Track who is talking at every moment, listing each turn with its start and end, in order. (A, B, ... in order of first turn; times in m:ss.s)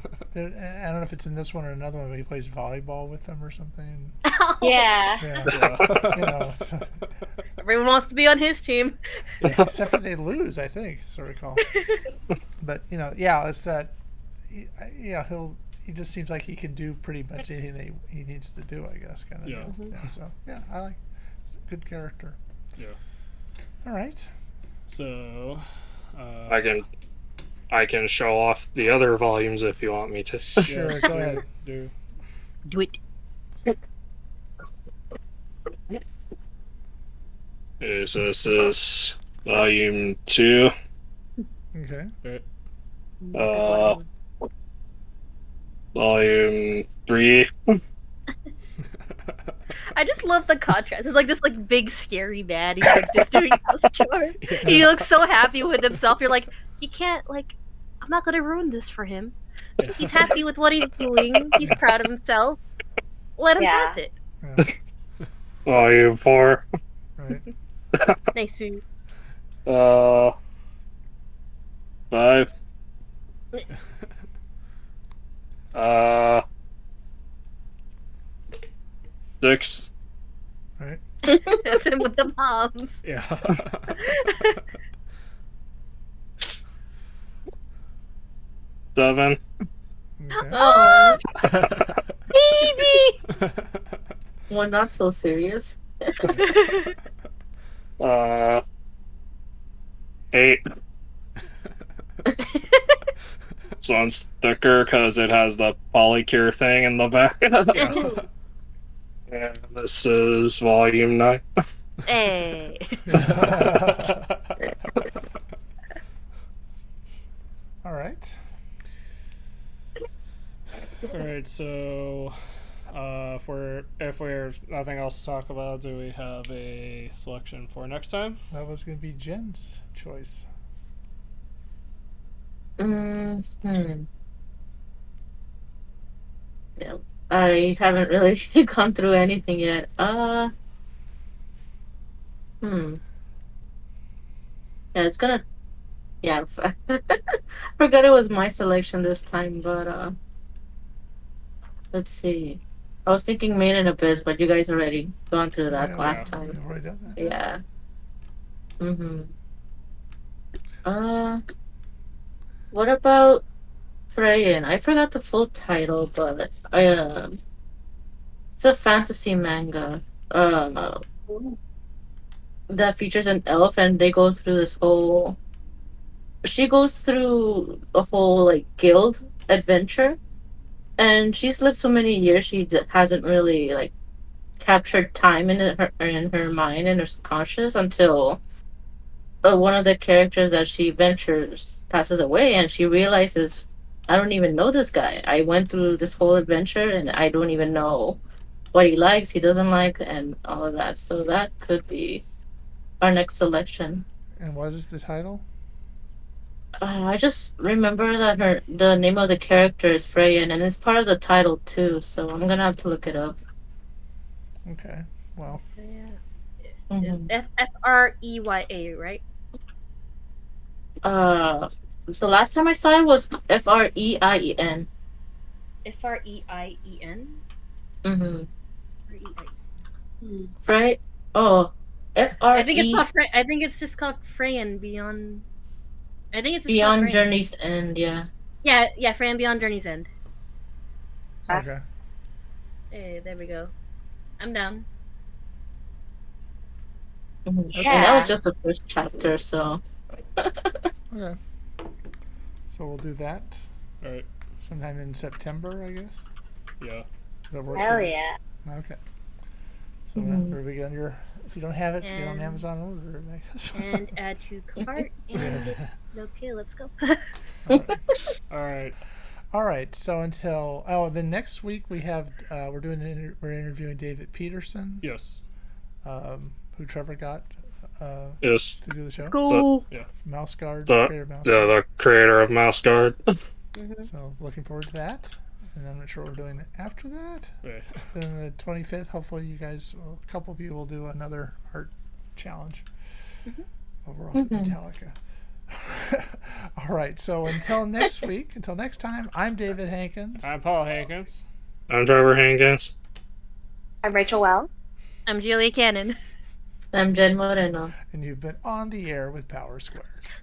0:00.3-0:04.1 A
0:04.2-0:04.9 B
0:04.6-0:05.5 C
0:05.2-0:07.0 A
0:05.4-0:05.8 D
0:05.5-0:06.5 E
0:07.6-0:09.0 B
0:09.5-0:11.7 A
0:11.7-0:12.0 B
0:12.6-0:14.0 A
0:14.5-0:21.0 A
0:19.4-0:19.7 E
0:21.6-0:22.4 A
0:23.8-0:24.3 A
0:24.9-0:26.8 E
0:26.5-0:26.8 D
0:27.7-0:30.7 D
0:30.4-0:31.4 A
0:30.6-0:31.9 E
0:32.6-0:33.0 B
0:37.8-0:40.7 D
0:41.7-0:42.1 A
0:43.2-0:44.0 C
0:43.3-0:44.0 D
0:45.9-0:47.8 D
0:49.9-0:59.3 B
0:54.4-0:55.1 E
0:59.8-1:00.4 E
0:59.9-1:02.6 B
1:03.4-1:04.1 B
1:03.6-1:04.0 C
1:04.4-1:04.7 A
1:05.6-1:06.6 D
1:07.2-1:07.4 A
1:08.3-1:08.8 B
1:09.6-1:10.3 D
1:12.1-1:12.5 D
1:15.7-1:16.4 D
1:19.4-1:19.8 D
1:21.3-1:22.9 B
1:23.0-1:24.0 E
1:23.9-1:24.6 B
1:29.0-1:29.4 D
1:30.2-1:30.6 A
1:30.4-1:31.2 B
1:30.5-1:31.2 F
1:31.4-1:32.0 E
1:32.3-1:33.2 B
1:34.5-1:36.3 F
1:36.4-1:36.9 B
1:38.0-1:38.6 D
1:40.3-1:40.6 D
1:42.6-1:42.9 B
1:43.8-1:48.1 D
1:47.7-1:48.2 B
1:47.8-1:48.2 E
1:49.3-1:51.4 D
1:52.0-1:53.0 B
1:53.1-1:54.2 A
1:53.2-1:54.2 E
1:57.8-1:58.3 A
2:01.0-2:02.3 E
2:02.9-2:08.4 E
2:08.5-2:10.4 A
2:12.8-2:14.1 F
2:16.8-2:20.5 F
2:22.6-2:23.0 F
2:24.9-2:25.4 F
2:26.2-2:30.2 F
2:31.9-2:36.5 F
2:35.7-2:37.3 A
2:36.0-2:36.3 E
2:37.2-2:37.6 F
2:38.8-2:39.3 F
2:40.8-2:41.4 F
2:42.7-2:43.4 F
2:44.1-2:47.4 F
2:48.6-2:51.0 F
2:52.7-2:55.4 F
2:56.4-3:00.2 F
3:01.0-3:03.9 F
3:04.6-3:08.4 F
3:09.4-3:18.2 F
3:18.7-3:22.2 F
3:23.0-3:24.0 F
3:24.4-3:25.4 A
3:26.8-3:33.4 F
3:34.6-3:35.6 A
3:35.6-3:36.2 B
3:36.7-3:39.2 B
3:36.9-3:37.3 F
3:41.0-3:44.9 F
3:45.8-3:47.4 B
3:48.0-3:48.5 F
3:49.1-3:49.5 B
3:50.2-3:50.5 C
3:50.6-3:53.0 F
3:52.5-3:55.4 B
3:56.3-3:57.3 B
3:56.7-3:58.3 F
3:58.6-4:00.1 B
4:01.5-4:01.8 A
4:02.9-4:03.7 B
4:04.4-4:04.8 B
4:07.4-4:09.8 F
4:07.7-4:08.2 A
4:07.8-4:08.4 C
4:10.4-4:10.9 F
4:11.1-4:11.4 A
4:12.7-4:13.6 A
4:14.0-4:14.3 E
4:14.6-4:16.3 A
4:16.8-4:17.0 E
4:17.5-4:19.0 A
4:17.7-4:18.4 C
4:20.1-4:24.1 A
4:20.2-4:20.6 F
4:22.0-4:22.6 B
4:23.7-4:27.3 B
4:25.3-4:25.7 A
4:27.7-4:28.0 A
4:28.5-4:29.0 E
4:29.5-4:35.0 A
4:35.0-4:35.4 E
4:36.0-4:39.4 A
4:38.4-4:38.7 D
4:39.2-4:39.8 B
4:40.2-4:41.7 A
4:40.9-4:43.3 D
4:43.8-4:44.1 B
4:44.0-4:47.5 A
4:47.6-4:48.0 E
4:48.1-4:52.9 A
4:54.0-4:55.2 A
4:54.4-4:54.7 F
4:55.7-5:00.5 A
5:00.4-5:01.4 E
5:01.9-5:02.9 D
5:04.0-5:04.7 C
5:05.3-5:06.2 B
5:06.9-5:07.9 F
5:08.0-5:10.3 A